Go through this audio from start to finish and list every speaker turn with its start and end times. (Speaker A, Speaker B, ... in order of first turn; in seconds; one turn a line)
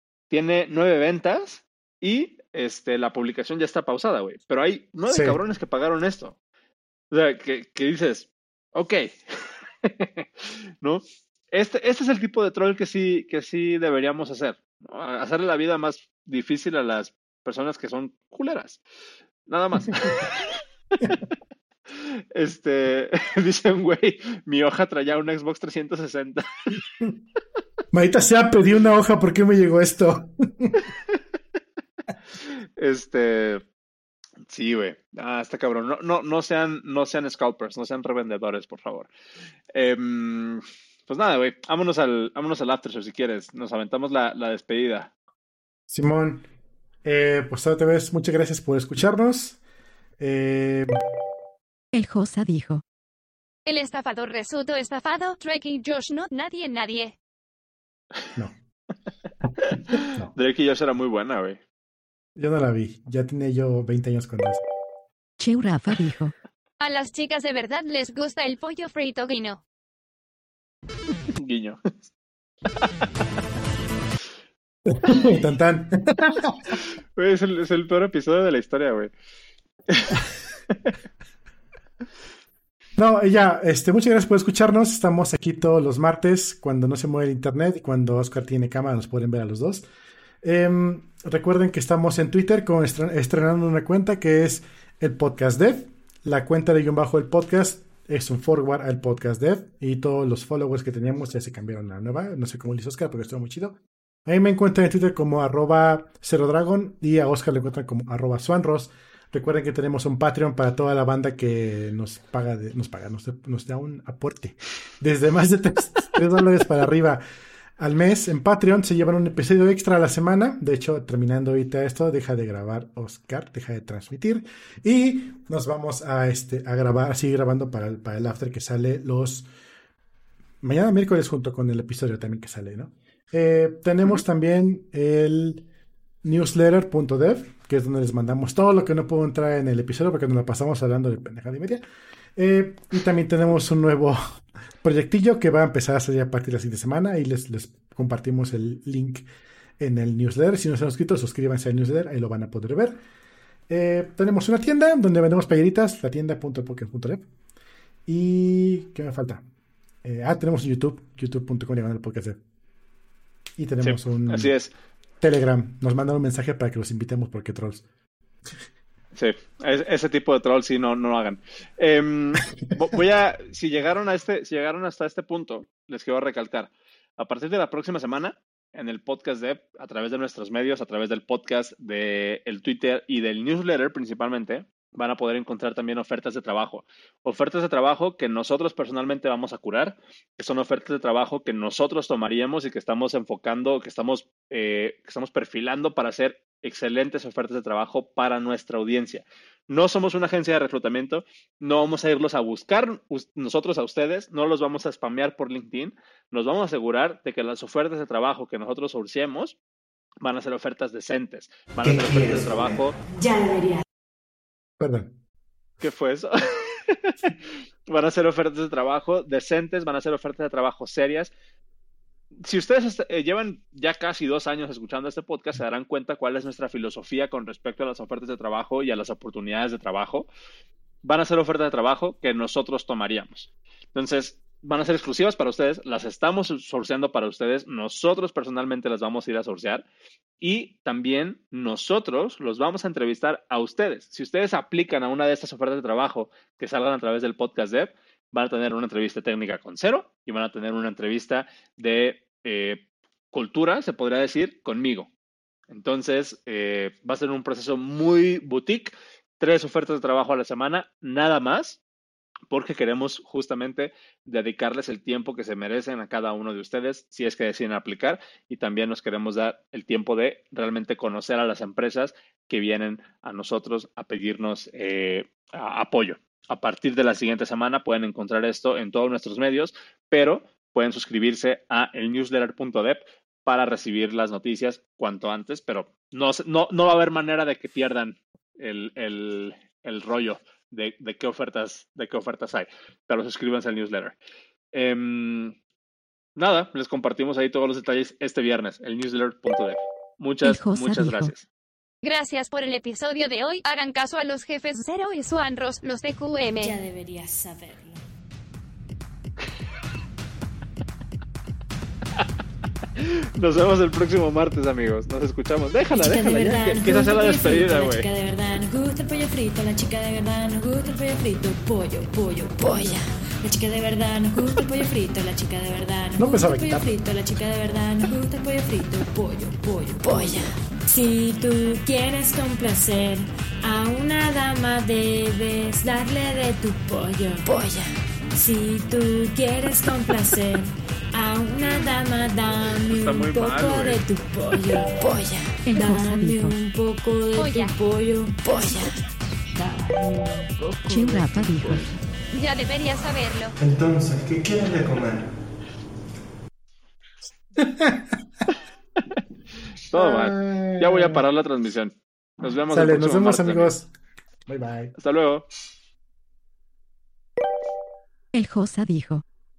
Speaker A: 0.3-6.4
Speaker B: 5.1-5.4
Speaker A: 7.1-18.8
Speaker A: 19.4-21.2
Speaker A: 21.9-26.8
Speaker B: 27.9-30.9
Speaker A: 32.8-33.6
Speaker A: 34.5-39.1
Speaker A: 39.7-45.1
Speaker B: 45.9-46.5
Speaker B: 47.0-49.6
Speaker B: 50.2-51.0
Speaker C: 51.9-52.8
Speaker D: 53.7-57.1
Speaker B: 59.4-60.3
Speaker A: 59.6-61.6
Speaker B: 62.4-64.6
Speaker C: 65.4-66.3
Speaker D: 66.8-69.6
Speaker A: 71.3-72.0
Speaker B: 74.9-76.8
Speaker A: 77.2-79.1
Speaker A: 79.9-80.2
Speaker B: 83.0-89.9
Speaker B: 90.4-117.2
Speaker B: 117.8-129.5
Speaker B: 130.6-135.6
Speaker B: 136.2-141.8
Speaker B: 142.3-144.2
Speaker B: 144.8-149.3
Speaker B: 149.8-153.0
Speaker B: 153.7-157.3
Speaker B: 158.1-159.4
Speaker B: 160.0-162.4
Speaker B: 163.6-164.5
Speaker A: 163.8-164.7
Speaker B: 165.2-167.8
Speaker A: 169.1-209.6
Speaker A: 210.2-212.9
Speaker E: 211.8-212.7
Speaker F: 213.2-213.8
Speaker B: 214.8-215.1
Speaker A: 215.8-217.3
Speaker A: 217.9-221.3
Speaker A: 222.4-230.3
Speaker A: 231.0-239.8
Speaker A: 240.4-255.1
Speaker A: 255.7-261.8
Speaker A: 262.5-294.1
Speaker A: 294.7-295.6
Speaker A: 296.4-301.4
Speaker C: 300.4-301.3
Speaker D: 302.0-306.7
Speaker F: 306.6-308.0
Speaker A: 313.0-318.1
Speaker F: 315.9-349.0
Speaker B: 326.2-326.9
Speaker A: 341.6-342.0
Speaker A: 342.9-344.0
Speaker C: 345.7-346.5
Speaker D: 347.4-347.8
Speaker F: 349.5-351.9
Speaker C: 350.9-351.8
Speaker D: 352.3-353.5
Speaker E: 353.6-355.3
Speaker B: 357.6-358.4
Speaker A: 359.9-363.7
Speaker B: 359.9-361.2
Speaker B: 362.7-363.9
Speaker B: 364.5-364.9
Speaker A: 365.0-365.5
Speaker C: 368.3-369.2